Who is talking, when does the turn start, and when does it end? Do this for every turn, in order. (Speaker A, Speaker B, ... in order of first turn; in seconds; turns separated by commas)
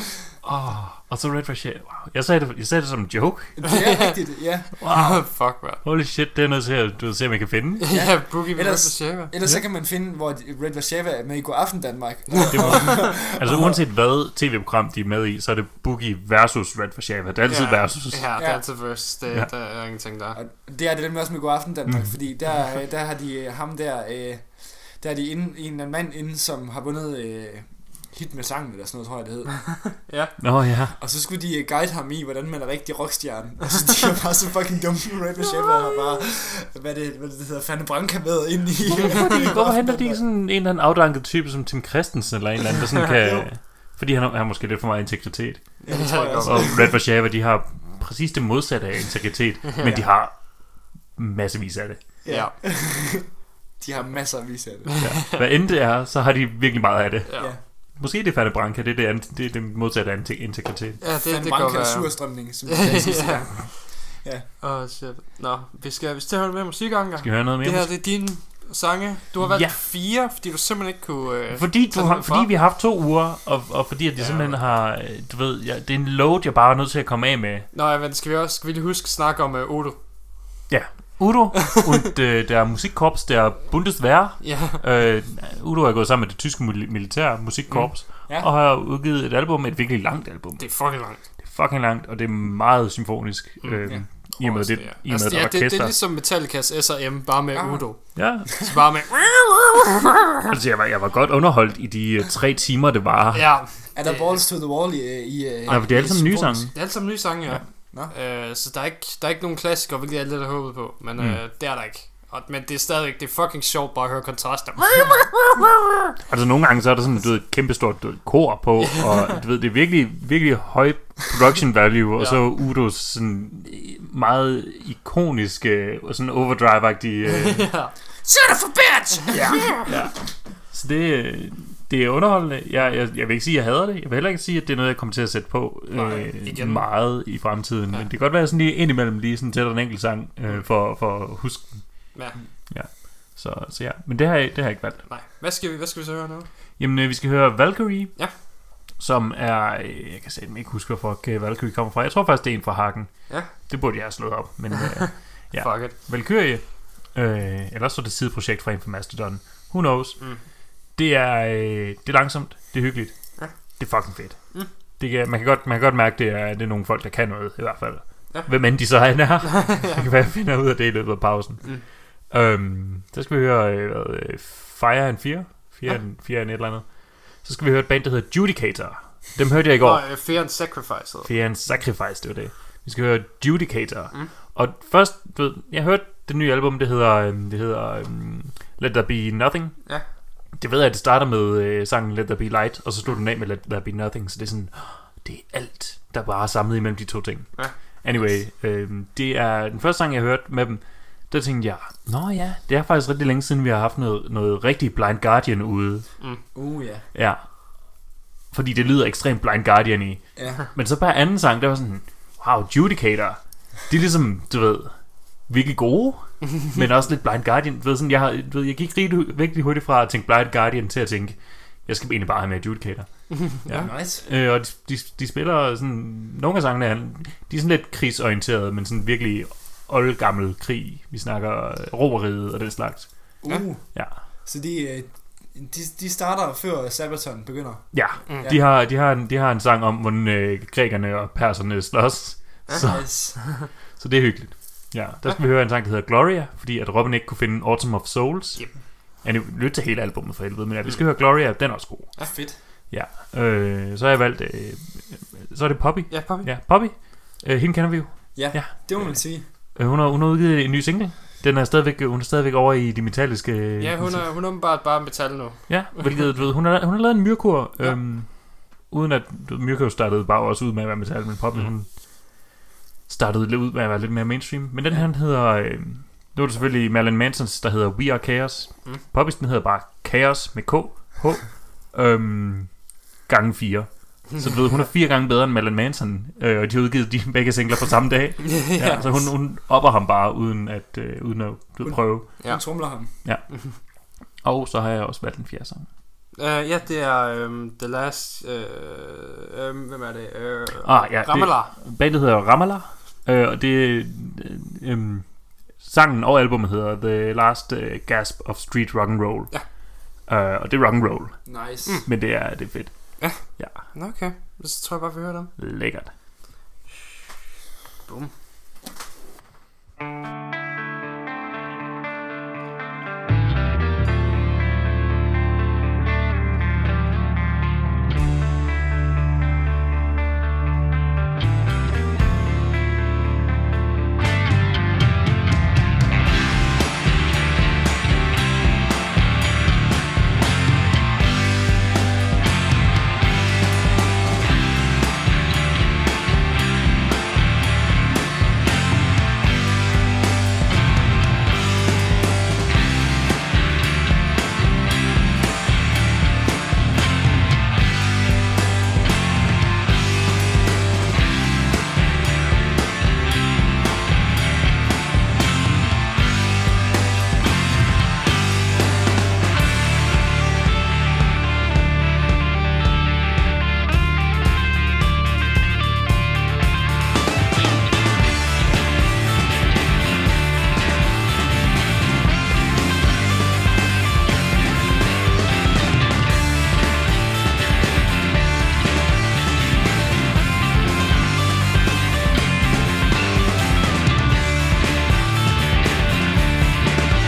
Speaker A: 0.4-3.6, Speaker B: 3.6-4.7, Speaker C: 3.7-5.8, Speaker A: 4.8-7.9, Speaker C: 7.8-9.3, Speaker B: 7.9-13.8, Speaker C: 12.4-13.1, Speaker A: 12.5-18.5, Speaker C: 17.5-20.4, Speaker B: 18.4-18.7, Speaker B: 20.3-30.0, Speaker A: 21.9-22.2, Speaker C: 29.9-30.3, Speaker A: 30.4-30.9, Speaker B: 31.0-40.2, Speaker A: 38.9-52.2, Speaker C: 39.0-39.4, Speaker B: 43.2-43.5, Speaker C: 45.8-46.9, Speaker B: 45.9-47.0, Speaker B: 49.8-50.1, Speaker B: 52.2-54.9, Speaker C: 52.3-52.6, Speaker C: 54.9-55.3, Speaker A: 55.0-61.0, Speaker C: 57.3-57.5, Speaker C: 61.0-72.5, Speaker B: 61.2-64.5, Speaker A: 67.2-68.2, Speaker A: 69.4-69.8, Speaker A: 71.5-77.7, Speaker C: 74.2-74.8, Speaker C: 77.7-80.0, Speaker A: 80.7-96.0, Speaker C: 84.4-84.8, Speaker C: 87.7-88.0, Speaker C: 90.6-91.2, Speaker C: 93.6-99.8, Speaker B: 97.5-98.2, Speaker A: 98.2-98.8, Speaker A: 100.5-103.7, Speaker C: 103.3-104.5, Speaker B: 103.9-106.7, Speaker A: 105.7-106.8, Speaker C: 105.7-115.2, Speaker A: 111.2-111.4, Speaker A: 114.9-115.7, Speaker A: 116.2-127.7, Speaker C: 118.8-119.4, Speaker C: 122.2-122.5, Speaker C: 127.4-127.9, Speaker B: 128.2-129.9, Speaker A: 129.3-145.1, Speaker C: 129.8-130.1, Speaker C: 135.9-137.3, Speaker C: 145.1-146.5, Speaker A: 146.8-180.6, Speaker C: 155.5-155.9, Speaker C: 160.2-160.4, Speaker C: 163.4-164.7, Speaker C: 168.3-169.1, Speaker C: 169.7-169.9, Speaker C: 179.8-181.3, Speaker A: 181.2-189.9, Speaker A: 190.6-206.1, Speaker B: 198.1-198.5, Speaker B: 206.5-207.1, Speaker A: 207.1-207.4, Speaker A: 208.5-234.2, Speaker B: 210.4-210.6, Speaker C: 223.3-223.9, Speaker B: 223.7-224.2, Speaker B: 233.4-238.7, Speaker A: 237.9-264.3, Speaker C: 238.3-238.6, Speaker C: 242.7-243.7, Speaker B: 242.8-243.4, Speaker C: 250.9-251.6, Speaker B: 252.3-252.6, Speaker C: 256.1-256.5, Speaker B: 258.4-259.5, Speaker C: 263.8-266.6, Speaker A: 265.7-272.0, Speaker C: 267.8-268.1, Speaker A: 273.1-292.7, Speaker C: 288.5-289.3, Speaker B: 291.8-293.1, Speaker C: 292.4-293.3, Speaker A: 293.2-293.9, Speaker A: 294.4-295.9, Speaker C: 296.4-301.7, Speaker A: 300.8-313.8, Speaker B: 311.5-312.0, Speaker C: 313.2-315.5, Speaker A: 315.6-316.1, Speaker C: 318.1-318.3